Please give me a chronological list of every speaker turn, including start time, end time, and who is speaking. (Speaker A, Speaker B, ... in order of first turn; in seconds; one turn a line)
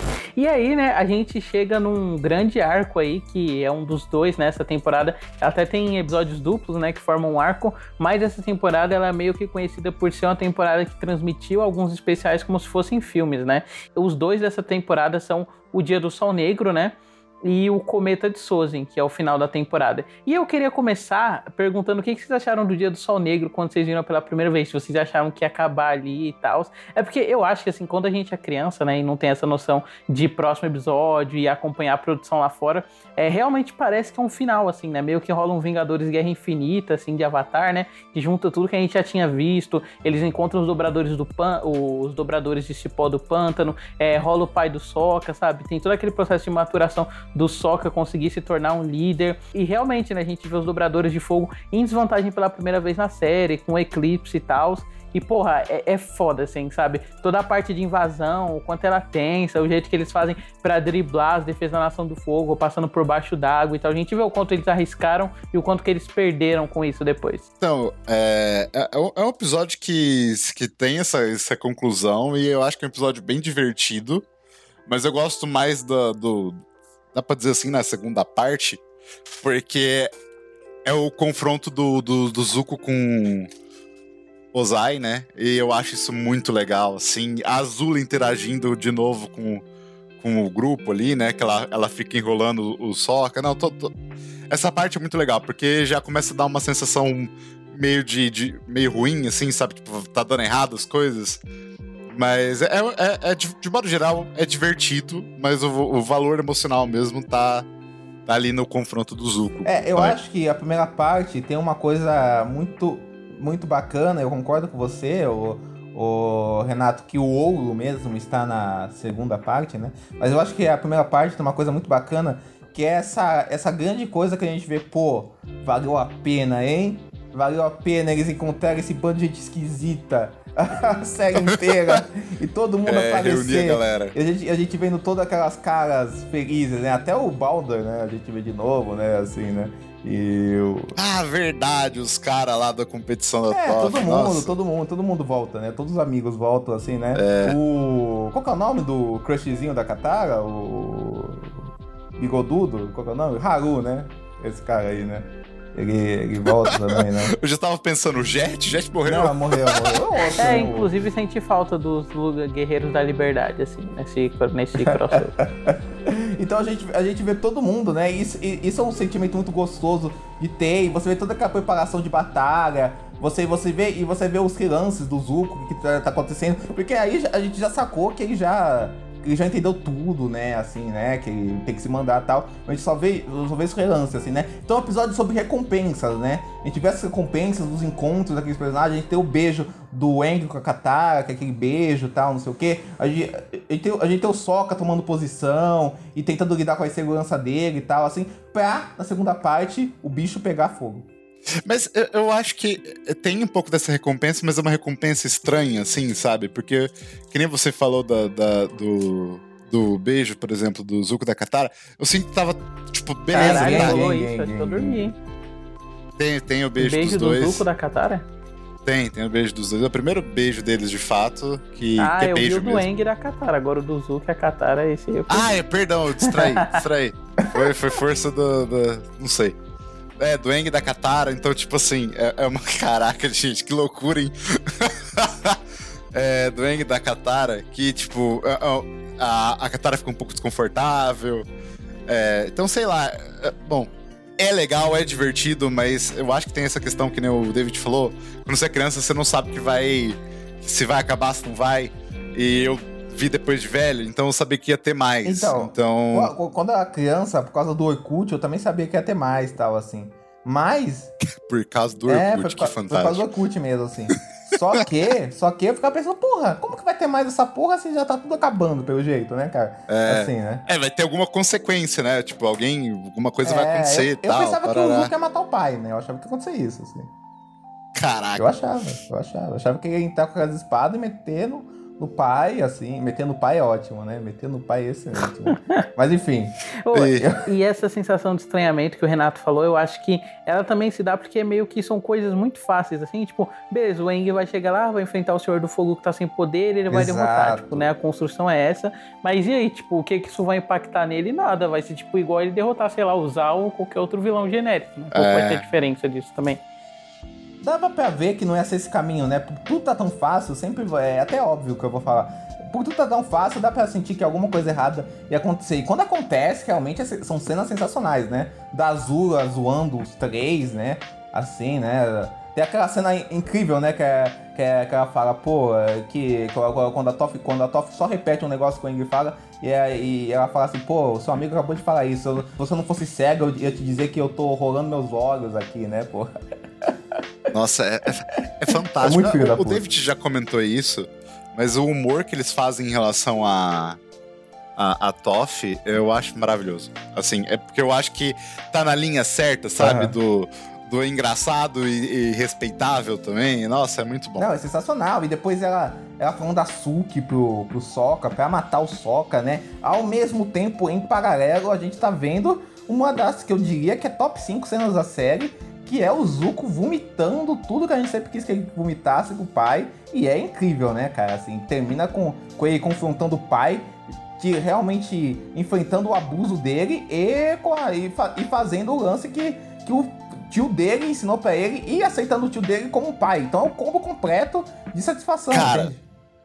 Speaker A: 0.4-67.4
Speaker B: 67.6-74.2
Speaker B: 74.9-76.6
Speaker B: 77.1-80.1
Speaker B: 80.8-83.5
Speaker B: 84.5-89.6
Speaker B: 90.2-93.9
Speaker B: 94.5-101.4
Speaker B: 102.1-107.7
Speaker B: 108.2-110.2
Speaker C: 109.6-140.9
Speaker B: 131.7-132.0
Speaker B: 132.8-134.1
Speaker B: 140.9-144.5
Speaker C: 143.5-151.6
Speaker B: 147.1-147.6
Speaker C: 152.2-157.3
Speaker B: 156.7-160.0
Speaker C: 159.0-160.9
Speaker A: 160.4-165.3
Speaker C: 164.9-201.1
Speaker B: 201.6-214.0
Speaker C: 213.3-215.1
Speaker A: 213.3-215.2
Speaker B: 216.2-217.6
Speaker A: 216.8-218.2
Speaker B: 218.8-222.9
Speaker A: 222.0-225.4
Speaker B: 225.3-229.6
Speaker A: 226.2-226.8
Speaker B: 230.2-235.6
Speaker B: 236.1-241.4
Speaker B: 242.1-256.3
Speaker C: 255.2-261.1
Speaker B: 261.2-263.2
Speaker C: 262.1-270.6
Speaker B: 269.9-275.1
Speaker C: 273.4-277.1
Speaker B: 277.9-278.5
Speaker C: 278.4-286.6
Speaker A: 286.8-306.6
Speaker B: 286.9-287.3
Speaker C: 296.9-297.9
Speaker B: 305.1-305.6
Speaker C: 307.6-336.9
Speaker B: 337.5-344.0
Speaker C: 339.0-339.9
Speaker B: 344.8-354.5
Speaker C: 349.8-350.1
Speaker C: 354.4-386.0
Speaker B: 385.5-385.9